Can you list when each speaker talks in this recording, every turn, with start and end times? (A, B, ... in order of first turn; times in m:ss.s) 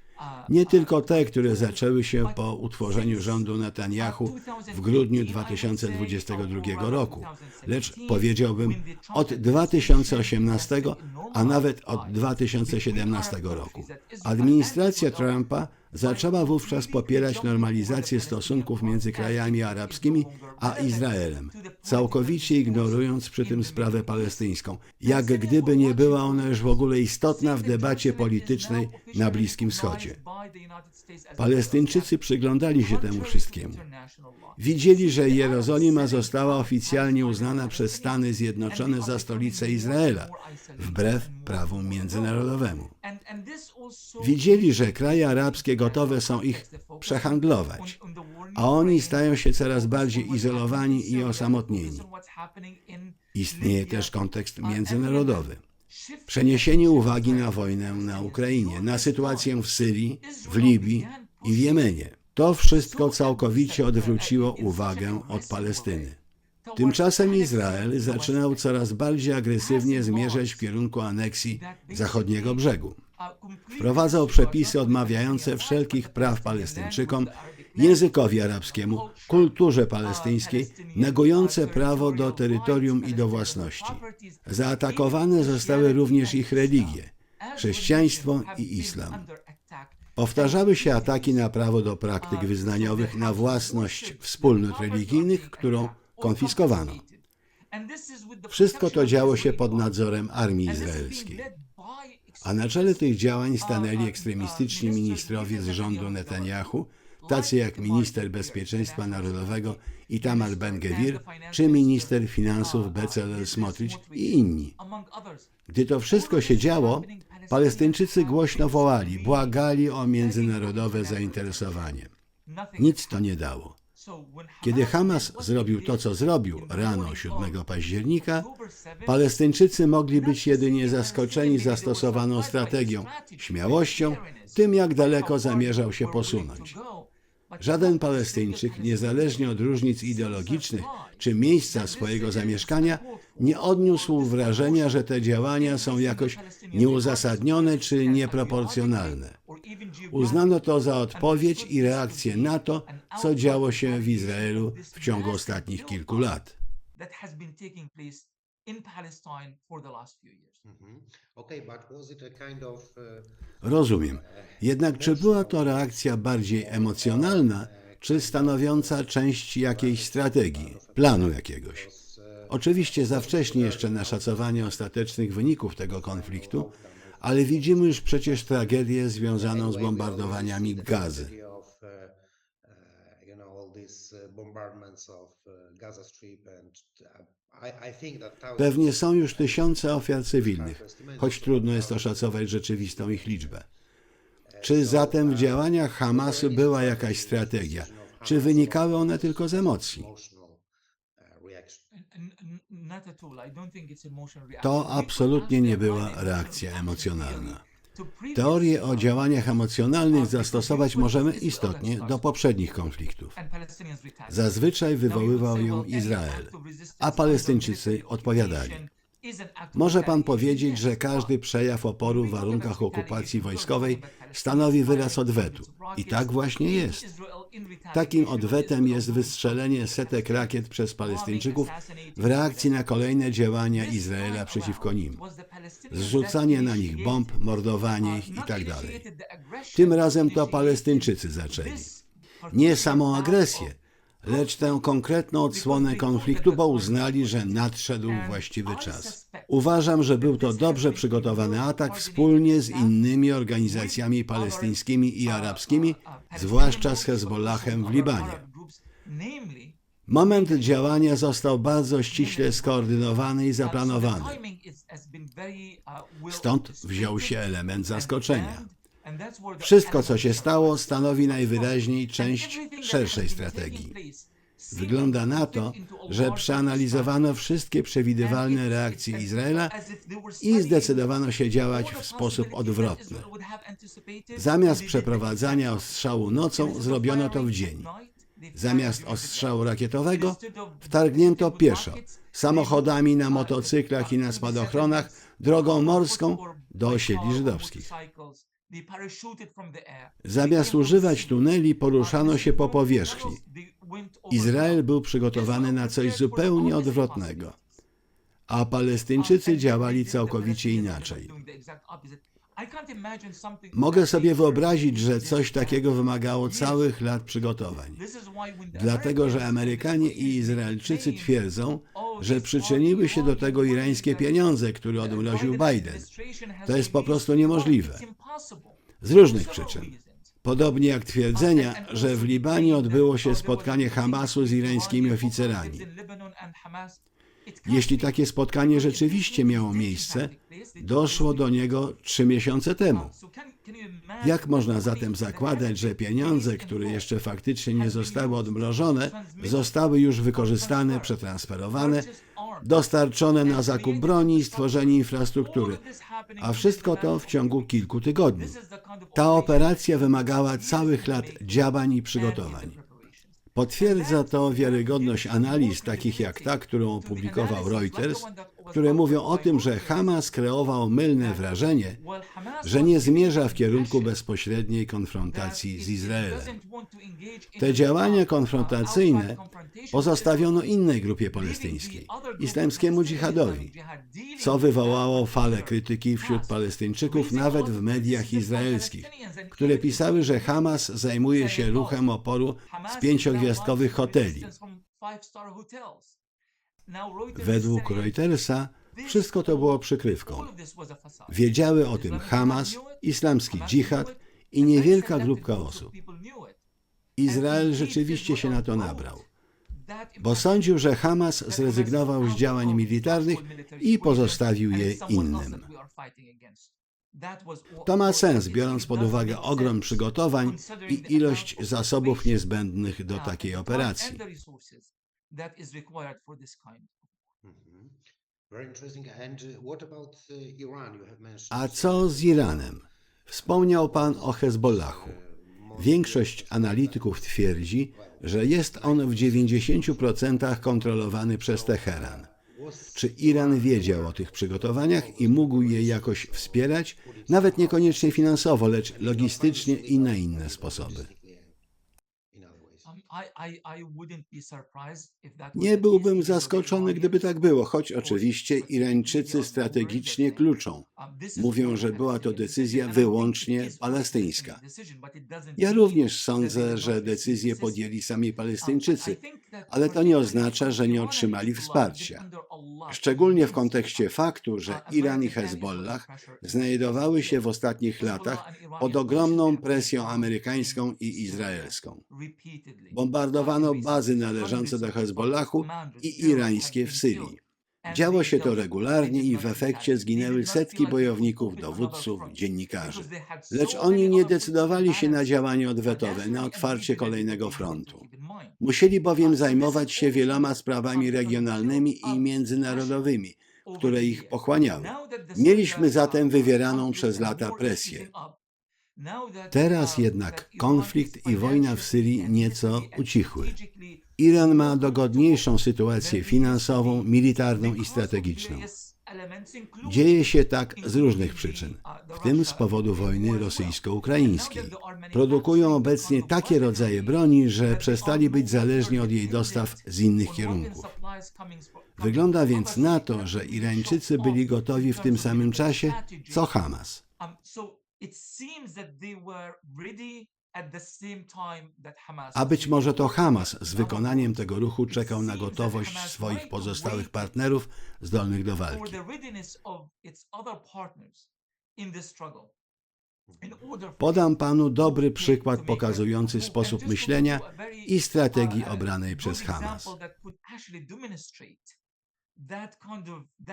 0:00.5-0:30.2 A
0:31.4-0:33.8 A
0:34.6-0:42.9 A
0:44.2-0:48.0 A
0:48.5-0:52.1 A
0:53.3-0:55.6 A
0:56.3-1:06.2 A
1:06.7-1:13.0 A
1:13.7-1:29.2 A
1:30.2-1:37.0 A
1:38.5-1:41.5 A
1:42.4-1:54.8 A
1:55.7-2:02.1 A
2:02.8-2:03.8 A
2:04.6-2:08.5 A
2:09.0-2:16.8 A
2:17.6-2:29.4 A
2:30.1-2:36.6 A
2:37.3-2:38.2 B
2:38.8-2:40.4 B
2:41.4-2:42.9 C
2:43.6-2:51.9 A
2:52.5-3:01.3 A
3:03.3-3:06.8 C
3:07.7-3:08.2 C
3:08.6-3:13.7 A
3:14.6-3:20.1 A
3:21.4-3:21.8 C
3:22.5-3:24.1 B
3:24.6-3:27.6 A
3:28.3-3:33.4 A
3:34.3-3:38.9 A
3:39.7-3:47.1 A
3:47.9-3:55.2 A
3:55.9-3:59.0 A
3:59.7-4:02.0 A
4:02.5-4:18.4 A
4:20.1-4:24.4 A
4:26.2-4:28.7 A
4:29.6-4:33.9 A
4:34.7-4:39.7 A
4:40.4-4:43.3 A
4:44.3-4:47.9 A
4:48.5-4:57.9 A
5:00.2-5:03.4 A
5:04.3-5:07.6 A
5:08.5-5:11.4 A
5:13.7-5:18.0 A
5:18.7-5:26.1 A
5:26.6-5:28.0 A
5:29.0-5:35.9 A
5:37.6-5:43.1 A
5:44.2-5:52.1 A
5:52.6-5:55.8 A
5:56.4-5:58.6 A
5:59.1-6:02.8 A
6:03.5-6:12.0 A
6:12.6-6:16.6 A
6:17.6-6:23.7 A
6:24.4-6:34.5 A
6:35.4-6:36.0 B
6:37.3-6:40.5 A
6:41.3-6:45.9 A
6:47.2-6:49.3 A
6:50.2-6:55.7 A
6:56.2-6:56.6 B
6:57.8-7:04.2 A
7:05.4-7:06.9 B
7:08.5-7:11.2 C
7:11.5-7:15.2 A
7:15.7-7:22.3 A
7:22.9-7:31.1 A
7:33.5-7:34.4 B
7:35.5-7:44.6 A
7:45.6-7:52.2 A
7:52.9-8:02.0 A
8:02.9-8:18.0 A
8:18.6-8:28.1 A
8:29.5-8:33.6 A
8:34.2-8:38.7 A
8:39.8-8:50.9 A
8:52.0-8:57.0 A
8:58.1-9:00.2 B
9:01.0-9:01.7 B
9:02.3-9:09.0 A
9:10.5-9:11.1 B
9:14.0-9:19.9 A
9:20.7-9:21.6 B
9:22.5-9:23.2 B